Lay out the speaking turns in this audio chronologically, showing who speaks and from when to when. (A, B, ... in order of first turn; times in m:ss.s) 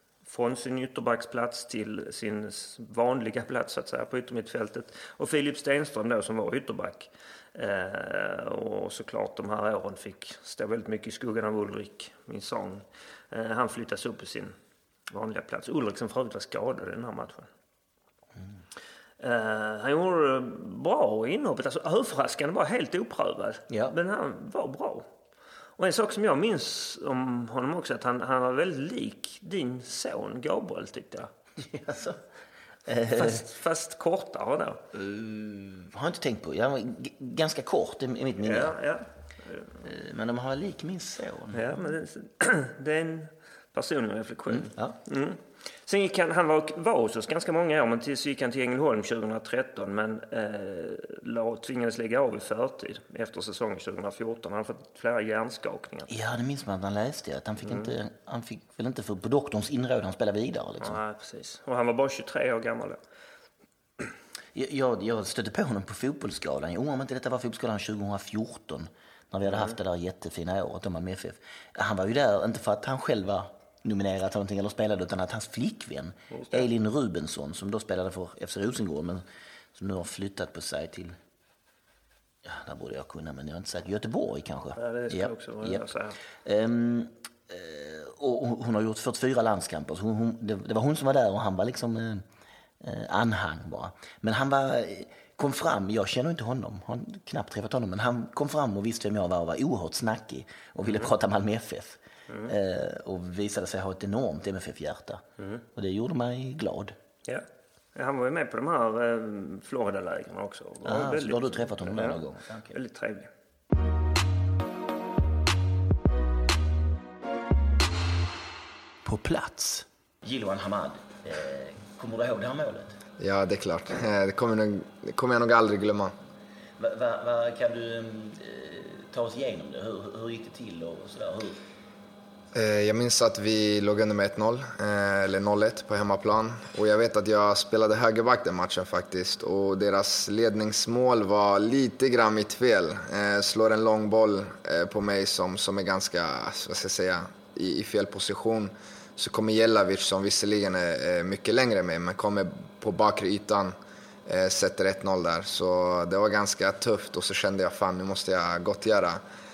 0:00.2-0:14.5 A
0:15.1-0:17.5 A
0:19.2-0:25.1 A
0:23.7-0:23.9 B
0:25.8-0:31.3 A
0:31.6-0:32.2 B
0:32.8-0:33.4 B
0:33.1-0:34.8 A
0:34.9-0:38.7 B
0:38.4-0:39.8 A
0:39.8-0:41.6 B
0:41.5-0:56.1 A
0:44.5-0:45.0 B
0:56.1-1:01.0 B
1:00.8-1:03.0 A
1:04.5-1:19.2 B
1:16.3-1:16.6 A
1:19.7-1:21.1 B
1:22.4-1:25.8 B
1:24.8-1:26.2 A
1:26.4-1:32.2 B
1:32.8-1:45.2 B
1:45.7-1:46.9 B
1:47.2-1:53.3 A
1:50.8-1:52.7 B
1:59.0-2:03.0 B
2:03.2-2:06.1 C
2:06.8-2:11.6 B
2:12.5-2:33.7 C
2:34.2-2:39.2 C